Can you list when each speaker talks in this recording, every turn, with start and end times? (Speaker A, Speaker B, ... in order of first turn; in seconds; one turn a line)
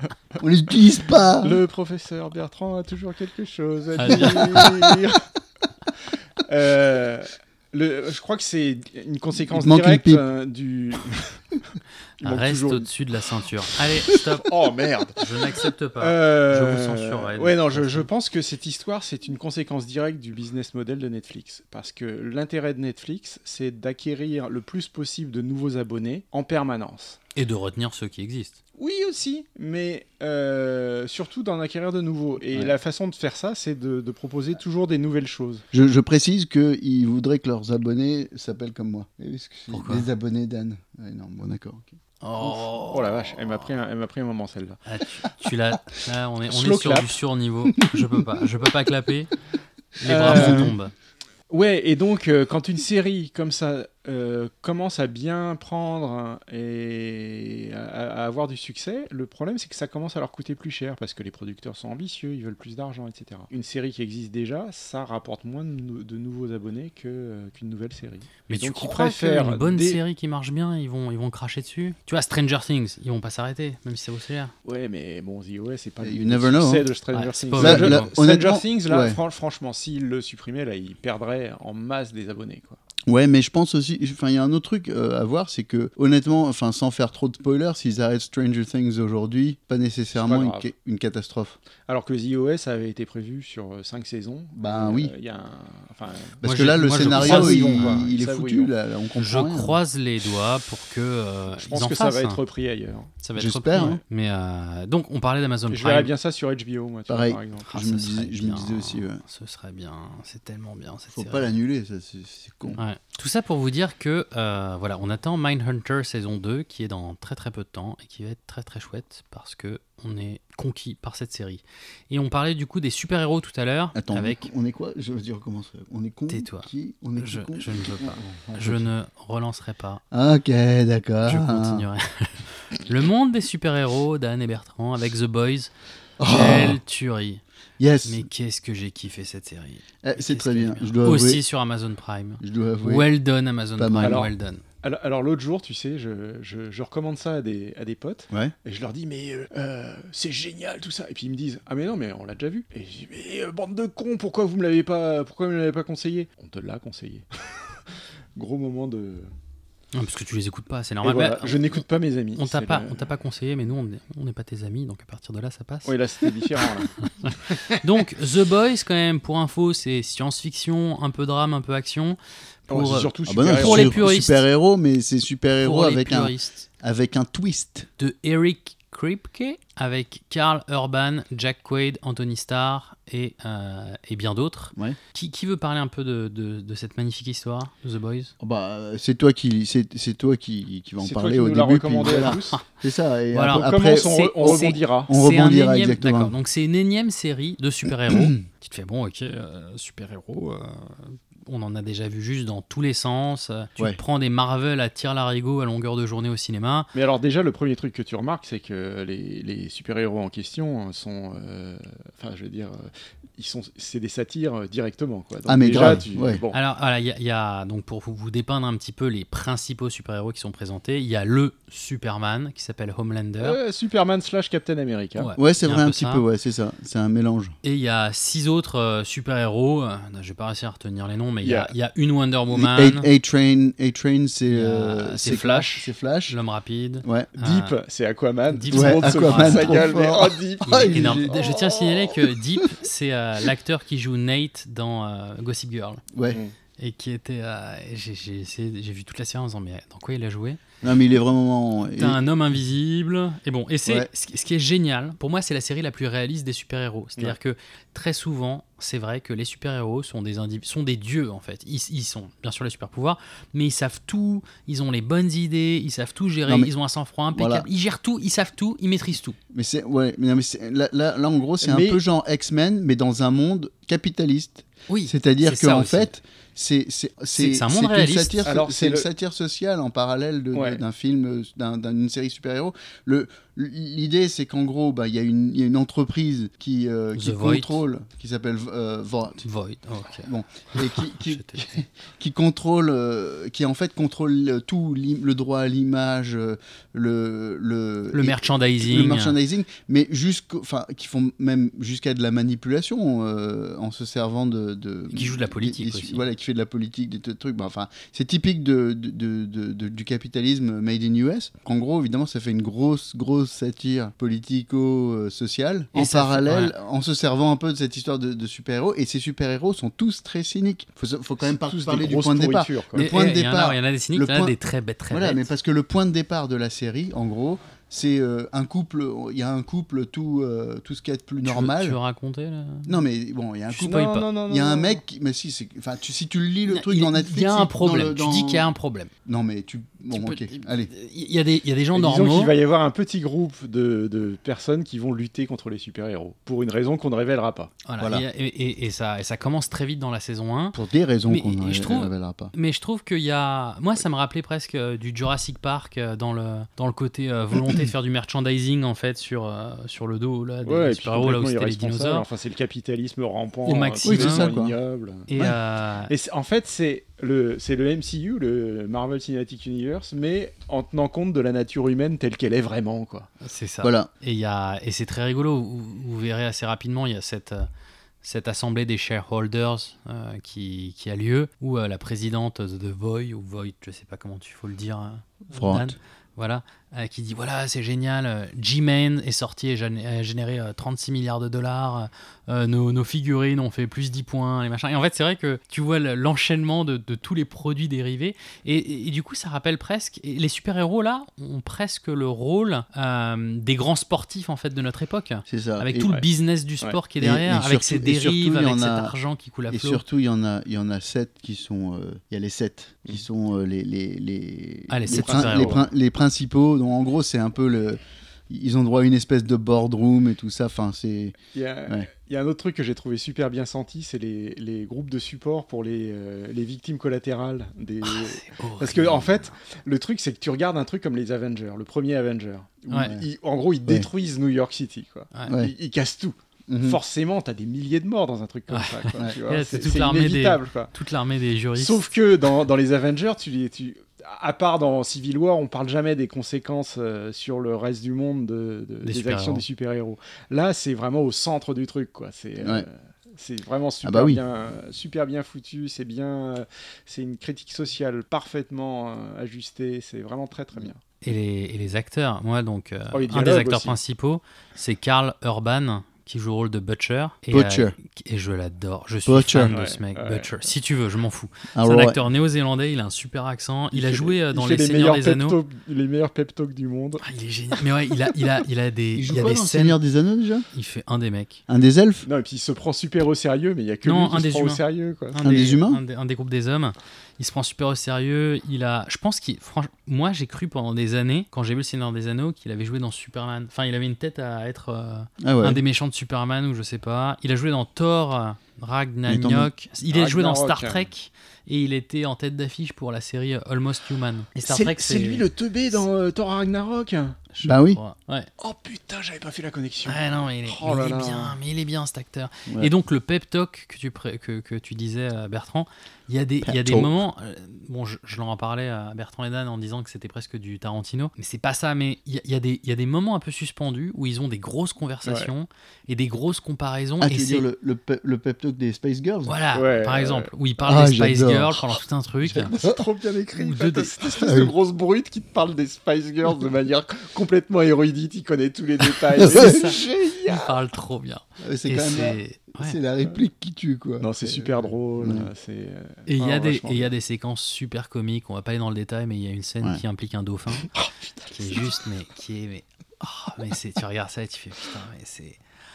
Speaker A: 0.3-1.6
Speaker B: 1.4-5.2
Speaker C: 4.0-4.6
Speaker A: 4.1-4.8
Speaker B: 6.4-11.4
Speaker A: 9.5-10.2
Speaker B: 12.2-12.9
Speaker C: 12.2-14.5
Speaker B: 14.4-15.2
Speaker C: 15.2-18.1
Speaker B: 16.0-27.2
Speaker C: 27.4-28.6
Speaker B: 28.8-35.6
Speaker A: 35.7-41.9
Speaker C: 39.7-40.1
Speaker C: 42.2-43.1
Speaker B: 42.8-44.8
Speaker C: 44.9-49.3
Speaker B: 46.5-47.1
Speaker A: 47.8-48.2
Speaker C: 50.0-50.9
Speaker B: 50.0-50.7
Speaker A: 50.1-50.7
Speaker B: 51.5-70.0
Speaker C: 68.5-74.5
Speaker B: 74.6-82.8
Speaker A: 76.0-76.9
Speaker C: 77.1-78.1
Speaker A: 77.5-79.2
Speaker A: 83.0-91.6
Speaker B: 90.1-90.7
Speaker B: 91.9-98.7
Speaker A: 94.5-95.1
Speaker A: 96.4-99.8
Speaker C: 96.4-98.1
Speaker C: 99.2-102.4
Speaker B: 101.6-103.1
Speaker C: 103.2-106.1
Speaker A: 103.3-104.0
Speaker B: 105.7-107.7
Speaker A: 107.1-109.2
Speaker C: 107.7-111.5
Speaker A: 111.1-112.8
Speaker C: 112.8-124.5
Speaker A: 123.9-128.9
Speaker C: 126.3-130.0
Speaker A: 130.1-131.9
Speaker C: 131.2-135.7
Speaker A: 136.2-136.8
Speaker C: 136.3-137.4
Speaker A: 137.8-138.2
Speaker C: 138.0-144.6
Speaker A: 140.0-141.4
Speaker A: 142.4-143.1
Speaker A: 143.8-144.3
Speaker B: 144.0-157.3
Speaker B: 158.3-159.3
Speaker C: 159.9-161.8
Speaker B: 161.0-163.1
Speaker C: 162.3-165.9
Speaker B: 165.8-167.0
Speaker C: 167.2-174.4
Speaker B: 167.5-167.8
Speaker B: 172.7-174.1
Speaker A: 173.2-177.9
Speaker C: 175.6-176.7
Speaker C: 178.0-188.3
Speaker A: 188.4-196.3
Speaker B: 191.0-192.6
Speaker C: 192.2-192.6
Speaker C: 193.3-206.9
Speaker B: 193.4-195.1
Speaker A: 198.1-198.4
Speaker B: 206.9-216.6
Speaker A: 215.4-216.4
Speaker C: 216.5-223.6
Speaker B: 223.4-225.3
Speaker C: 225.2-226.2
Speaker A: 225.3-227.6
Speaker C: 227.6-233.1
Speaker B: 231.4-231.7
Speaker A: 232.5-236.4
Speaker C: 234.5-237.7
Speaker A: 237.0-237.3
Speaker B: 237.4-242.1
Speaker C: 238.5-239.9
Speaker A: 238.7-241.4
Speaker C: 240.7-246.0
Speaker A: 246.1-246.4
Speaker C: 246.8-250.6
Speaker A: 250.8-252.2
Speaker C: 251.9-269.4
Speaker A: 266.4-266.7
Speaker A: 267.3-267.7
Speaker A: 269.5-289.4
Speaker B: 271.6-272.0
Speaker C: 274.9-276.1
Speaker C: 277.3-278.5
Speaker B: 278.4-279.1
Speaker B: 280.5-280.8
Speaker C: 287.1-287.8
Speaker C: 289.4-291.7
Speaker A: 290.2-324.5
Speaker C: 298.1-299.4
Speaker C: 305.1-306.2
Speaker C: 315.9-316.7
Speaker B: 321.4-323.1
Speaker C: 322.9-325.5
Speaker A: 325.1-332.0
Speaker C: 331.4-332.9
Speaker A: 332.9-338.7
Speaker C: 333.7-334.3
Speaker B: 333.8-335.0
Speaker C: 336.7-339.1
Speaker A: 339.2-340.9
Speaker C: 340.1-342.5
Speaker B: 341.9-347.7
Speaker C: 347.9-362.2
Speaker A: 348.0-348.2
Speaker A: 350.7-352.5
Speaker B: 360.6-365.3
Speaker C: 363.6-364.5
Speaker A: 364.0-364.7
Speaker C: 365.3-366.1
Speaker B: 366.1-373.3
Speaker C: 373.4-377.7
Speaker A: 373.8-374.1
Speaker C: 378.2-410.0
Speaker A: 385.5-385.9
Speaker A: 405.5-406.1
Speaker A: 407.2-409.1
Speaker A: 409.7-422.1
Speaker C: 414.9-415.8
Speaker B: 415.1-415.8
Speaker B: 421.5-440.9
Speaker C: 428.0-429.5
Speaker C: 432.9-433.1
Speaker A: 433.0-433.3
Speaker A: 435.5-435.7
Speaker A: 436.7-437.0
Speaker C: 438.7-442.0
Speaker B: 441.8-461.0
Speaker C: 449.0-449.6
Speaker A: 452.6-452.9
Speaker A: 454.0-454.4
Speaker C: 461.2-475.6
Speaker B: 463.1-464.0
Speaker A: 467.5-467.9
Speaker A: 469.2-469.7
Speaker B: 469.7-470.7
Speaker A: 471.7-472.2
Speaker B: 473.9-477.2
Speaker C: 477.2-480.0
Speaker A: 479.1-480.6
Speaker C: 480.7-481.6
Speaker A: 481.7-482.2
Speaker B: 482.2-485.4
Speaker C: 484.0-484.8
Speaker C: 485.3-505.4
Speaker A: 485.4-486.0
Speaker A: 495.4-495.8
Speaker A: 499.3-499.7
Speaker B: 500.1-501.1
Speaker B: 504.6-507.4
Speaker C: 507.5-508.5
Speaker A: 507.6-508.0
Speaker B: 508.6-511.6
Speaker C: 510.0-527.7
Speaker A: 516.6-517.1
Speaker B: 525.2-525.5
Speaker A: 527.2-529.5
Speaker C: 529.5-532.7
Speaker B: 529.7-530.5
Speaker A: 530.8-531.8
Speaker A: 532.4-533.0
Speaker B: 532.6-540.7
Speaker C: 533.6-534.1
Speaker A: 534.4-534.7
Speaker A: 539.4-540.4
Speaker C: 539.5-543.0
Speaker A: 541.6-545.5
Speaker B: 544.2-547.1
Speaker C: 546.3-550.9
Speaker B: 550.9-552.0
Speaker C: 551.5-555.6